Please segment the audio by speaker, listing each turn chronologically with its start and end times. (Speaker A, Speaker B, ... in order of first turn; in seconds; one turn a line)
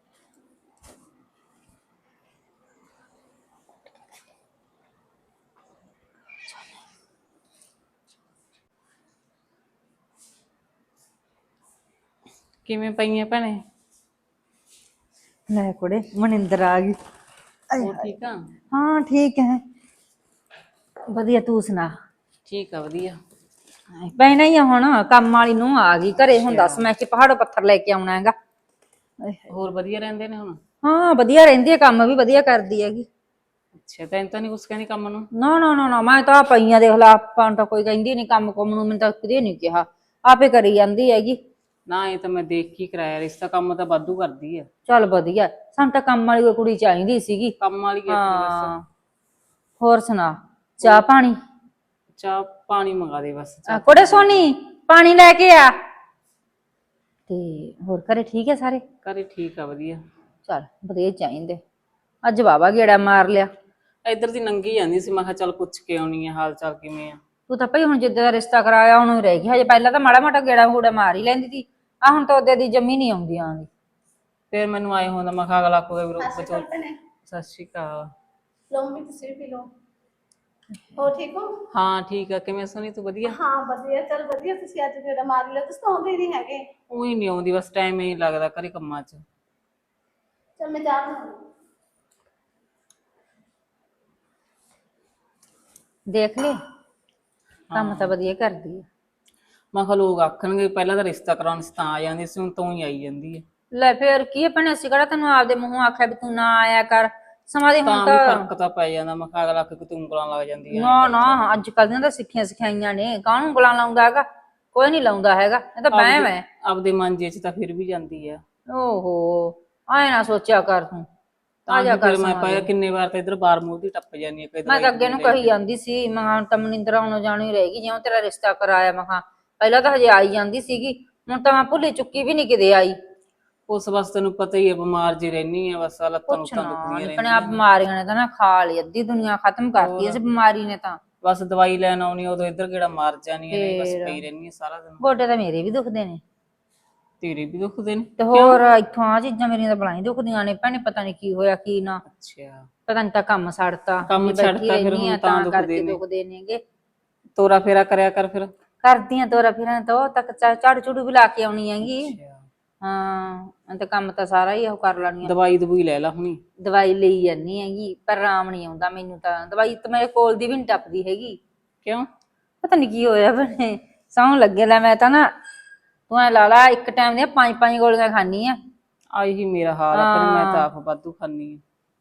Speaker A: 12.7-13.6
Speaker B: 15.5-17.0
Speaker B: 17.7-18.0
Speaker A: 17.8-18.4
Speaker B: 18.7-19.6
Speaker B: 21.1-21.9
Speaker A: 22.5-23.2
Speaker B: 24.0-28.4
Speaker A: 26.4-26.8
Speaker A: 29.5-30.6
Speaker B: 30.8-33.1
Speaker A: 33.8-35.3
Speaker B: 35.3-41.4
Speaker A: 41.9-44.7
Speaker B: 44.9-47.6
Speaker A: 47.6-48.7
Speaker B: 48.1-48.8
Speaker B: 49.8-51.4
Speaker A: 52.1-54.5
Speaker B: 53.7-55.8
Speaker B: 57.3-58.8
Speaker A: 59.0-60.0
Speaker B: 60.5-61.6
Speaker B: 62.2-63.5
Speaker A: 64.1-67.2
Speaker B: 67.5-73.7
Speaker A: 74.5-76.7
Speaker C: 76.2-77.0
Speaker A: 77.3-78.1
Speaker C: 78.7-79.7
Speaker C: 81.0-81.5
Speaker A: 81.7-83.4
Speaker C: 83.3-86.7
Speaker A: 86.9-89.2
Speaker C: 90.6-91.4
Speaker B: 96.1-96.6
Speaker A: 97.7-98.1
Speaker B: 97.7-98.9
Speaker A: 99.7-103.4
Speaker B: 103.7-108.5
Speaker A: 107.9-111.4
Speaker B: 110.7-116.5
Speaker A: 115.9-118.4
Speaker B: 118.7-121.1
Speaker A: 121.7-125.5
Speaker B: 121.7-122.7
Speaker B: 124.7-133.0
Speaker A: 133.7-137.6
Speaker B: 136.3-141.0
Speaker A: 139.8-140.2
Speaker A: 141.2-145.0
Speaker B: 143.5-144.2
Speaker B: 145.0-146.2
Speaker A: 147.2-148.6
Speaker B: 148.2-152.0
Speaker A: 152.1-152.7
Speaker B: 152.9-156.6
Speaker A: 154.1-156.0
Speaker A: 157.4-158.5
Speaker B: 158.8-162.1
Speaker A: 161.8-162.4
Speaker B: 162.8-165.3
Speaker A: 165.2-166.4
Speaker B: 166.6-171.4
Speaker B: 172.6-175.3
Speaker B: 176.1-178.6
Speaker A: 179.1-181.6
Speaker B: 179.9-180.6